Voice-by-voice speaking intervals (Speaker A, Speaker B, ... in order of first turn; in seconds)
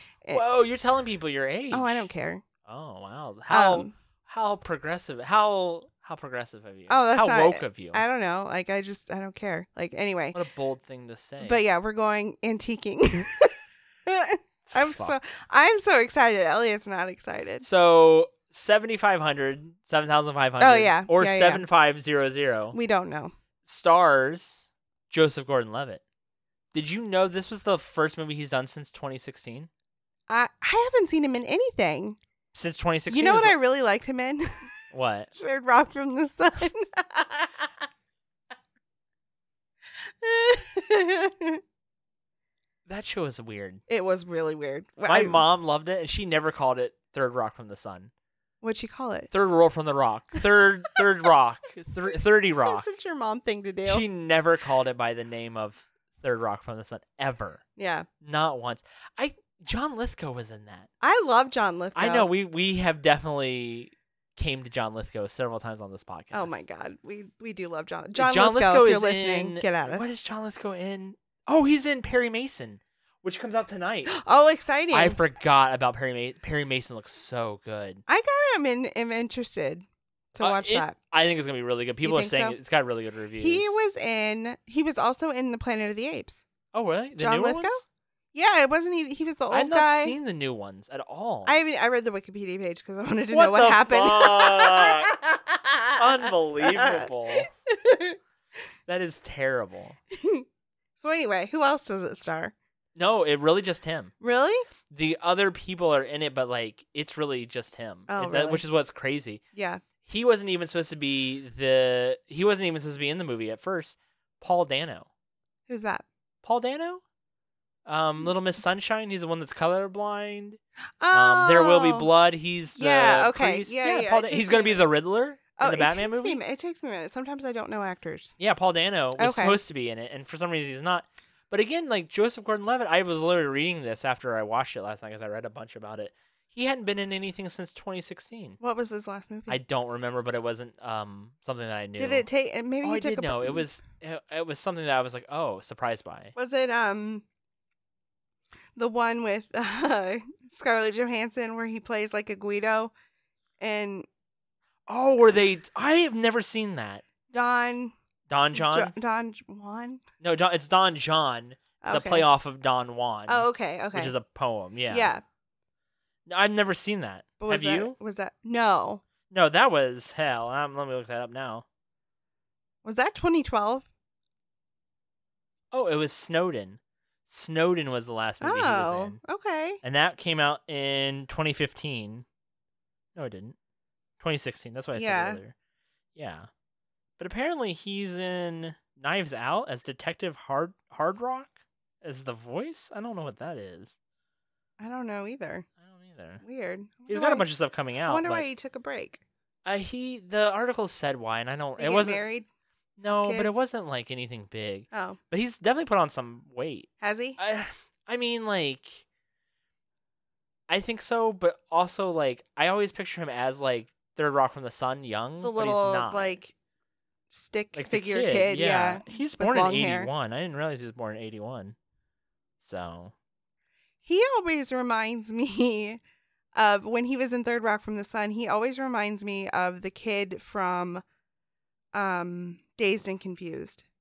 Speaker A: 0.3-2.1, 2.6-8.0, 10.3-11.6, 14.7-15.2, 17.6-22.8, 23.6-26.0, 26.7-29.7, 32.5-33.6, 34.9-35.3, 42.9-43.8, 45.0-48.1, 49.3-52.9, 53.9-57.6, 58.2-60.9, 62.0-66.6, 68.2-74.1, 74.9-78.0, 80.4-83.8, 86.7-87.8, 89.5-91.6, 93.3-95.2, 96.0-97.5, 98.9-100.0, 103.0-104.1, 104.9-109.4, 110.0-115.1, 116.4-117.0, 117.9-120.6, 121.1-126.4, 128.4-138.6, 139.5-142.3, 142.8-146.3, 154.9-157.0, 158.3-158.9, 160.2-165.1, 166.3-168.0, 169.3-171.7, 175.7-179.2, 179.8-182.2, 183.2-183.6, 184.2-185.6, 186.2-186.5, 187.2-193.9, 195.8-196.4, 197.1-198.4, 199.7-202.3, 203.0-209.0, 210.7-216.4, 217.8-221.8, 222.6-223.1
Speaker B: 1.7-2.4, 3.5-3.9, 6.9-10.4, 11.4-13.5, 14.1-17.6, 20.6-21.6, 22.7-23.3, 30.3-32.2, 33.1-34.7, 35.4-37.7, 40.2-41.6, 43.9-45.4, 48.6-49.3, 52.6-54.0, 57.8-58.1, 61.0-62.3, 66.3-70.1, 74.1-75.2, 78.1-81.0, 82.0-82.6, 83.4-86.4, 87.2-87.8, 88.3-90.2, 91.5-98.2, 100.2-100.5, 101.0-102.5, 104.2-104.6, 108.1-108.6, 109.5-109.8, 115.7-116.1, 121.0-122.1, 122.8-124.8, 125.6-128.4, 129.2-129.6, 138.6-139.6, 142.0-143.7, 146.4-147.2, 148.8-152.9, 153.6-154.1, 157.3-157.9, 158.6-160.0, 161.8-162.3, 163.3-164.2, 164.9-165.2, 167.4-169.0, 172.8-173.9, 178.4-179.8, 184.9-185.4, 194.8-195.7, 196.4-197.5, 198.1-199.2, 201.8-202.5, 203.2-203.6, 204.9-205.2, 207.0-207.4, 215.4-216.5, 217.3-220.1, 224.0-226.0, 226.6-231.0, 231.9-233.8